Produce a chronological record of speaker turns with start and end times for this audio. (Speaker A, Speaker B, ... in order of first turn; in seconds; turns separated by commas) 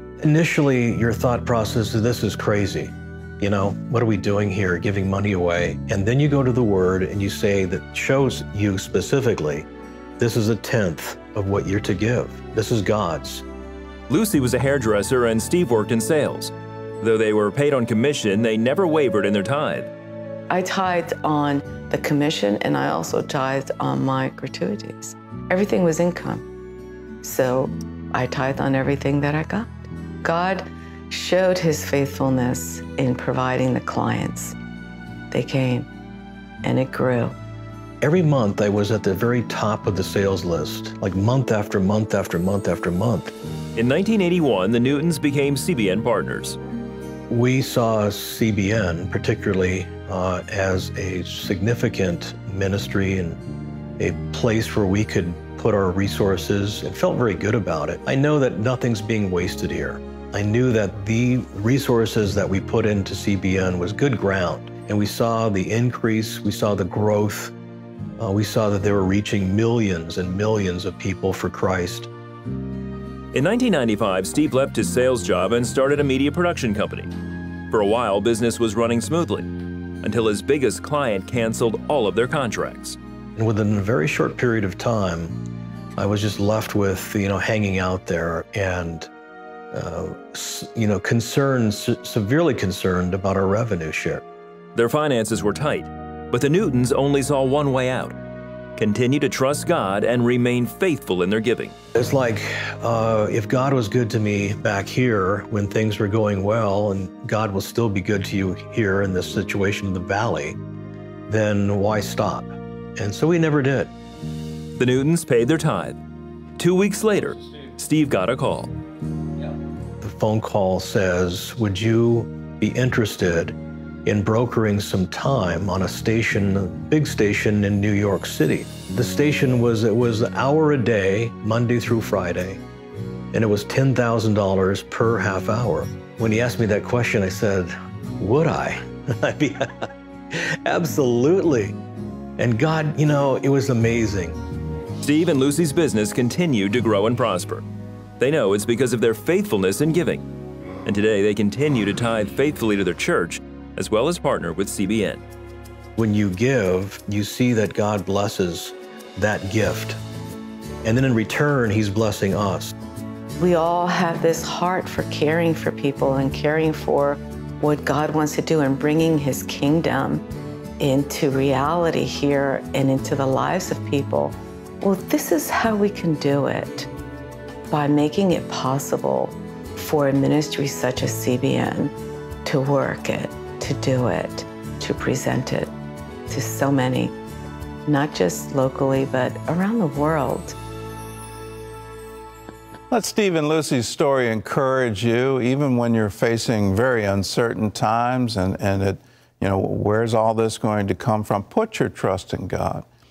Speaker A: 0.2-9.7, Speaker A: 10.2-13.4, Speaker B: 14.1-19.9, Speaker C: 20.5-26.5, Speaker C: 27.2-34.5, Speaker C: 35.3-35.9, Speaker C: 36.6-37.4, Speaker A: 38.0-43.3, Speaker B: 43.7-46.6, Speaker A: 47.3-53.4, Speaker A: 54.0-67.5, Speaker A: 68.2-72.1, Speaker B: 73.3-77.1, Speaker B: 77.7-79.5, Speaker B: 80.0-83.0, Speaker A: 83.3-85.4, Speaker A: 85.9-89.1, Speaker A: 89.7-94.2, Speaker B: 94.7-98.2, Speaker B: 98.8-101.8, Speaker A: 101.9-110.6, Speaker A: 111.3-113.9, Speaker B: 114.8-116.0, Speaker B: 116.6-118.8, Speaker A: 120.0-132.6, Speaker A: 133.3-139.7, Speaker A: 140.3-141.8, Speaker A: 142.4-144.4, Speaker B: 145.0-147.7, Speaker B: 148.2-150.3, Speaker B: 150.8-155.2, Speaker A: 156.0-160.0, Speaker A: 160.8-162.7, Speaker C: 163.4-170.2, Speaker C: 170.8-176.9, Speaker C: 177.7-181.9, Speaker C: 182.4-185.7, Speaker C: 186.3-187.1, Speaker C: 187.8-190.5, Speaker D: 192.9-202.8